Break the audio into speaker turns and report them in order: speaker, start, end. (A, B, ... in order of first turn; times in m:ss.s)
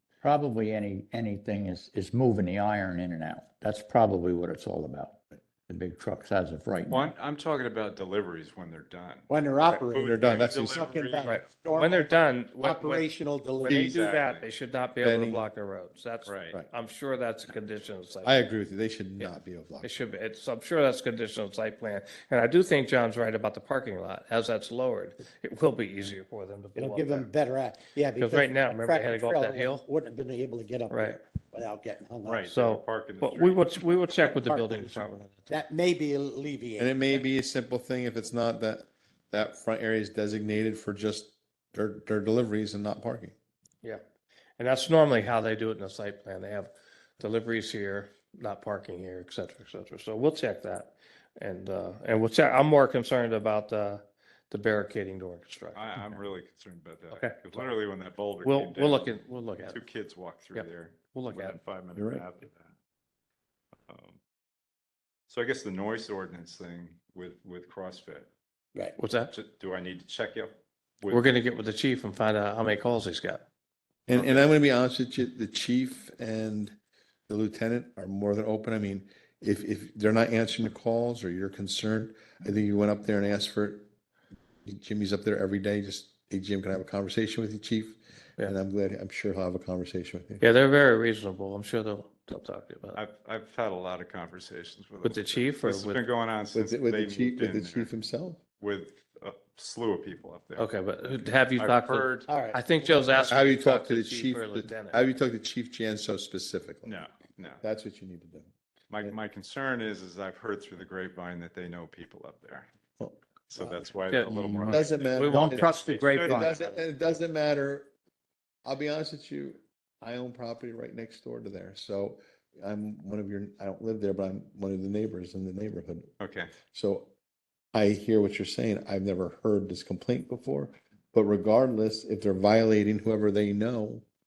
0:00.2-0:07.0 A
0:06.9-0:11.4 B
0:09.3-0:13.9 C
0:10.0-0:10.9 D
0:11.2-0:13.1 E
0:13.6-0:18.4 E
0:13.7-0:14.0 D
0:13.7-0:14.4 B
0:15.0-0:15.5 D
0:16.3-0:16.6 B
0:18.2-0:19.9 D
0:19.8-0:27.3 E
0:26.8-0:32.5 C
0:28.2-0:29.8 E
0:30.9-0:31.2 E
0:32.2-0:33.8 B
0:32.5-0:35.5 E
0:34.3-0:37.2 C
0:36.8-0:43.4 D
0:44.6-0:56.2 E
0:55.8-0:59.2 B
0:57.1-0:57.7 E
0:58.4-0:59.8 E
0:59.7-1:02.7 B
1:00.5-1:01.6 E
1:02.0-1:02.2 D
1:03.9-1:04.2 B
1:05.3-1:08.3 B
1:09.0-1:09.3 E
1:09.3-1:11.2 B
1:11.1-1:13.4 E
1:14.1-1:16.8 D
1:14.1-1:14.5 B
1:17.3-1:23.9 D
1:24.7-1:30.5 D
1:30.4-1:33.0 E
1:32.9-1:37.9 B
1:35.0-1:36.0 E
1:36.5-1:38.4 D
1:38.6-1:40.7 B
1:40.6-1:45.0 E
1:41.6-1:42.3 B
1:42.3-1:43.3 C
1:43.2-1:47.0 D
1:46.8-1:47.6 B
1:47.6-1:48.5 D
1:48.9-1:52.7 B
1:53.0-1:53.8 D
1:53.5-1:56.5 B
1:54.1-1:55.6 E
1:54.2-1:56.7 A
1:54.7-1:57.9 D
1:58.6-2:06.1 D
2:06.2-2:06.5 B
2:06.7-2:07.1 D
2:07.7-2:14.0 D